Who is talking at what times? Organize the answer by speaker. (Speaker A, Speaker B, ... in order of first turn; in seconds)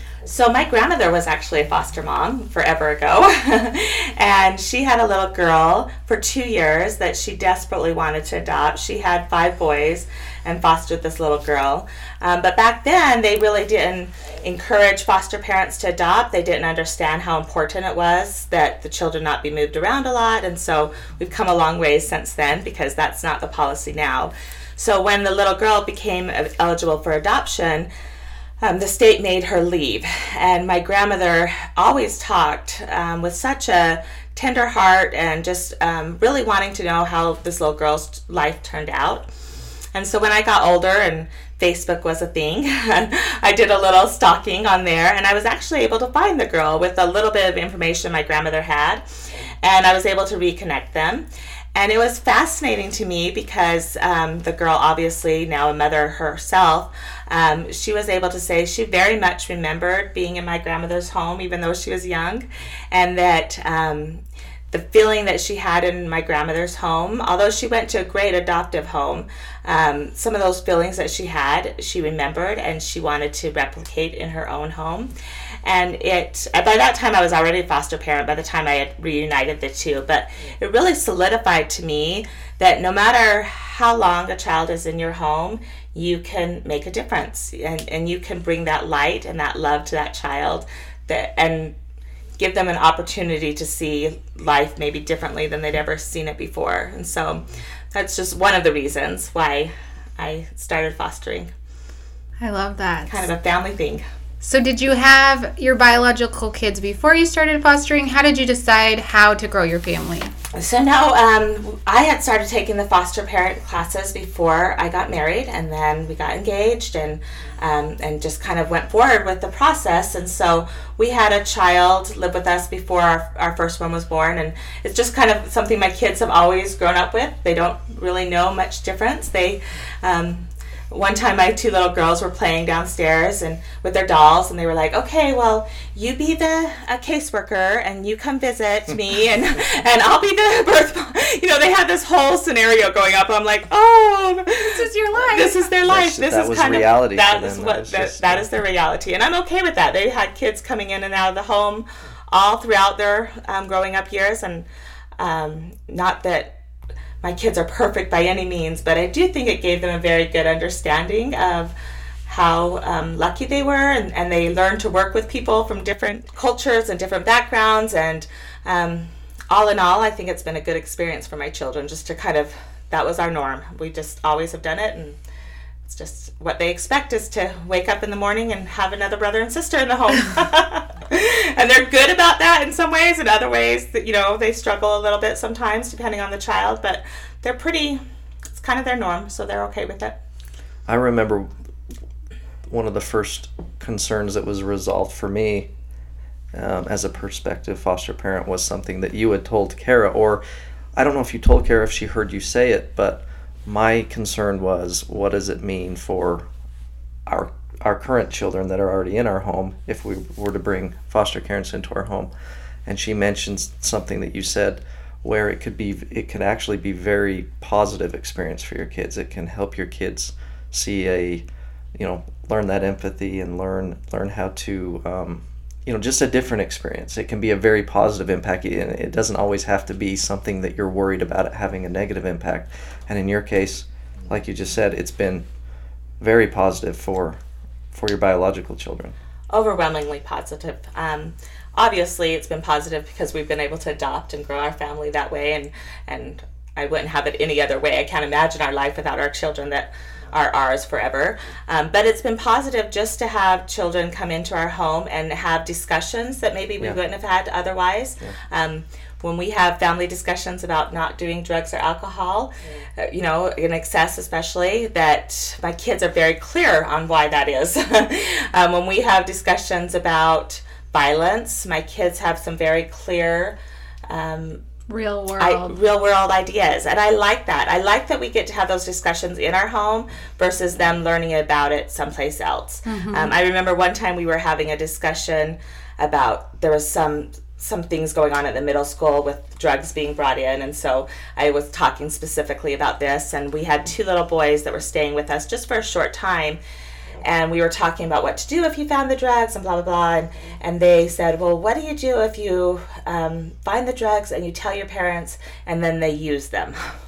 Speaker A: 0.3-27.9, 28.6-39.3, 39.9-49.0, 49.6-75.1, 75.6-91.8, 92.4-101.5, 103.1-104.0, 110.5-154.7, 155.2-156.5, 157.2-161.7, 162.3-175.2, 175.9-188.0, 188.5-190.2, 239.5-273.6, 274.1-274.6, 275.4-296.6, 297.2-306.9
Speaker B: 102.4-103.3, 104.4-110.3, 144.6-145.6, 274.9-275.8, 282.9-283.4
Speaker C: 145.8-148.5, 190.9-191.5, 192.7-195.7, 196.5-200.4, 200.9-206.5, 207.3-212.3, 212.9-235.4, 236.2-237.4, 237.9-239.1